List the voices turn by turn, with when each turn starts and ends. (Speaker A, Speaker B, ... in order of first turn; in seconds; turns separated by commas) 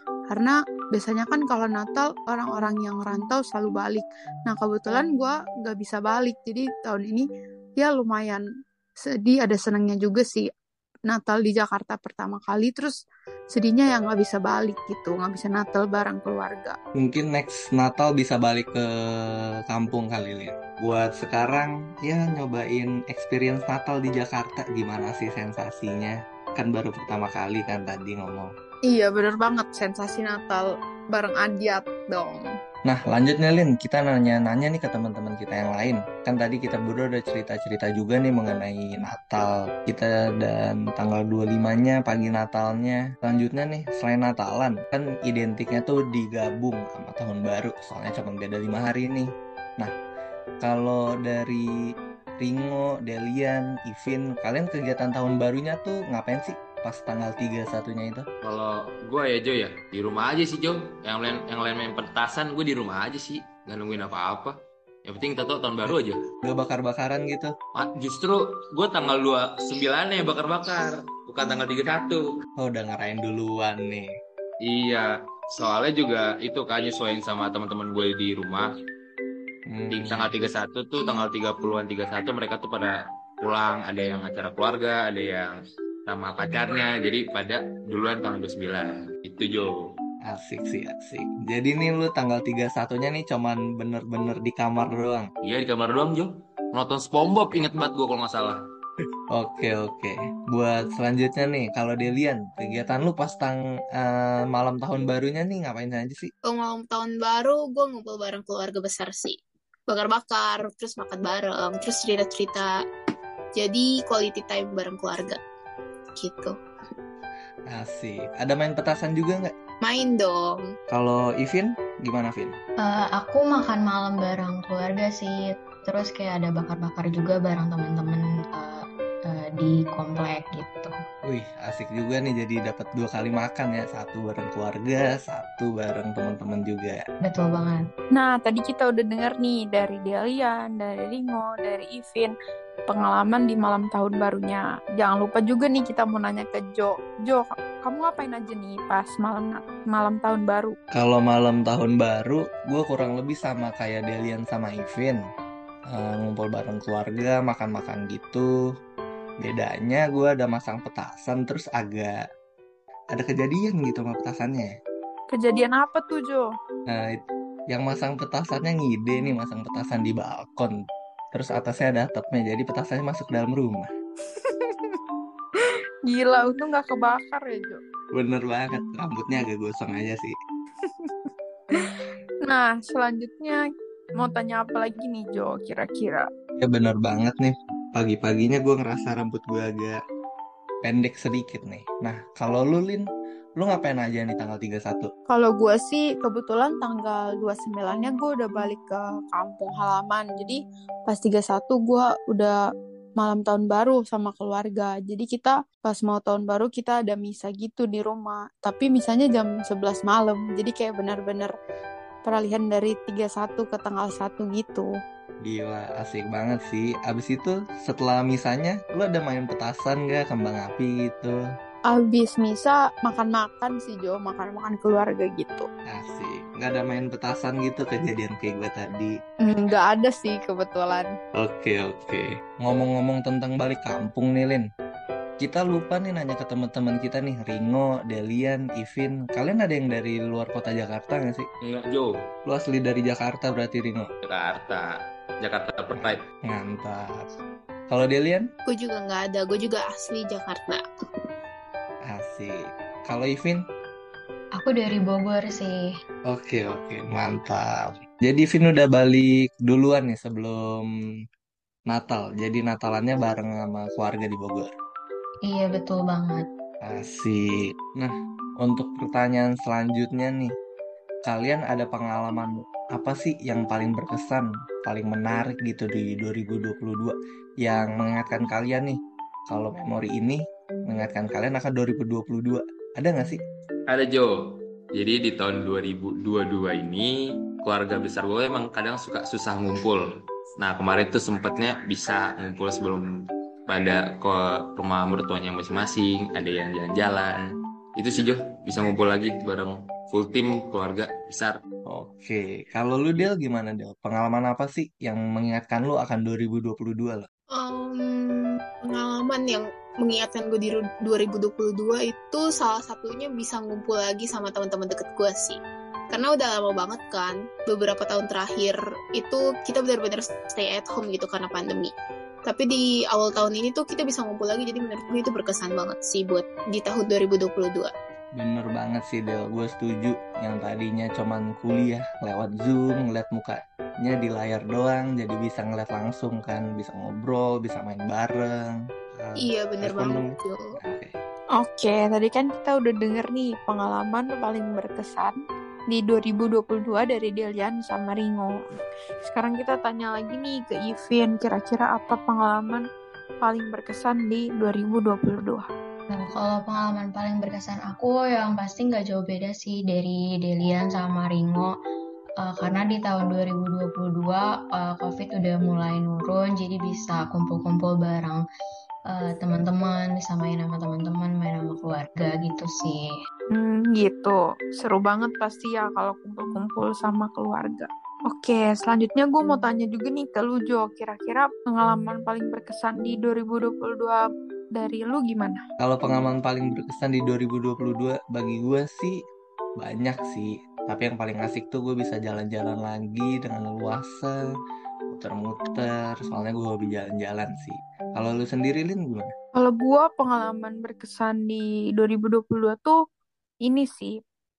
Speaker A: 0.3-7.2, Speaker A: 7.8-8.4, Speaker A: 9.0-10.5, Speaker A: 11.1-13.0, Speaker A: 13.5-16.8, Speaker B: 16.9-28.5, Speaker A: 28.9-32.4, Speaker B: 32.9-49.9, Speaker B: 50.6-51.6, Speaker B: 52.4-58.2, Speaker C: 58.4-66.2, Speaker B: 65.8-67.5, Speaker C: 67.8-72.2, Speaker B: 72.6-74.1, Speaker C: 74.6-78.7, Speaker B: 79.7-80.3, Speaker C: 79.9-89.8, Speaker B: 90.2-95.3, Speaker C: 95.4-98.6, Speaker B: 99.3-106.3, Speaker D: 106.4-109.3, Speaker D: 109.9-112.7, Speaker D: 113.5-115.4, Speaker D: 116.2-116.5, Speaker B: 117.7-119.5, Speaker D: 119.8-120.7, Speaker B: 120.9-122.6, Speaker E: 122.8-130.9, Speaker B: 131.2-137.0, Speaker E: 137.2-137.8, Speaker A: 138.1-142.3, Speaker A: 142.9-150.8, Speaker B: 150.9-155.2, Speaker B: 155.9-158.4, Speaker B: 159.4-162.2, Speaker B: 163.1-164.7, Speaker A: 165.3-166.5, Speaker B: 166.9-170.8, Speaker B: 171.3-173.9, Speaker A: 174.2-175.0, Speaker A: 175.6-177.8, Speaker B: 178.1-180.3, Speaker A: 180.8-183.6, Speaker A: 184.2-186.2, Speaker B: 186.6-190.0, Speaker B: 190.8-195.1, Speaker A: 195.3-202.6, Speaker A: 203.2-211.5, Speaker A: 212.2-214.9, Speaker B: 215.4-221.4, Speaker A: 221.9-225.7, Speaker B: 225.9-229.1, Speaker A: 229.4-231.1, Speaker B: 231.3-234.7, Speaker B: 235.4-241.5, Speaker C: 241.6-242.1, Speaker B: 242.4-244.1, Speaker C: 244.2-246.2, Speaker B: 245.9-247.3, Speaker B: 247.9-248.5, Speaker D: 248.7-250.8, Speaker B: 252.1-253.6, Speaker E: 254.6-255.8, Speaker B: 256.3-260.9, Speaker B: 261.9-264.7, Speaker E: 265.4-266.4, Speaker B: 266.8-270.5, Speaker B: 271.3-283.4, Speaker C: 283.9-290.0, Speaker C: 290.6-293.0, Speaker C: 293.7-297.4, Speaker C: 297.9-301.6, Speaker B: 301.9-307.3, Speaker D: 307.5-315.6, Speaker D: 316.1-321.9, Speaker D: 322.4-327.9, Speaker B: 328.4-341.1, Speaker D: 339.4-340.6, Speaker A: 341.6-345.4, Speaker A: 345.9-348.6, Speaker A: 349.2-352.9, Speaker A: 353.4-355.6, Speaker E: 356.1-361.7, Speaker E: 362.4-368.4, Speaker E: 369.1-373.0, Speaker A: 373.5-385.6, Speaker B: 385.8-389.1, Speaker B: 389.8-394.4, Speaker B: 395.1-399.3, Speaker A: 399.6-403.0, Speaker A: 403.6-404.1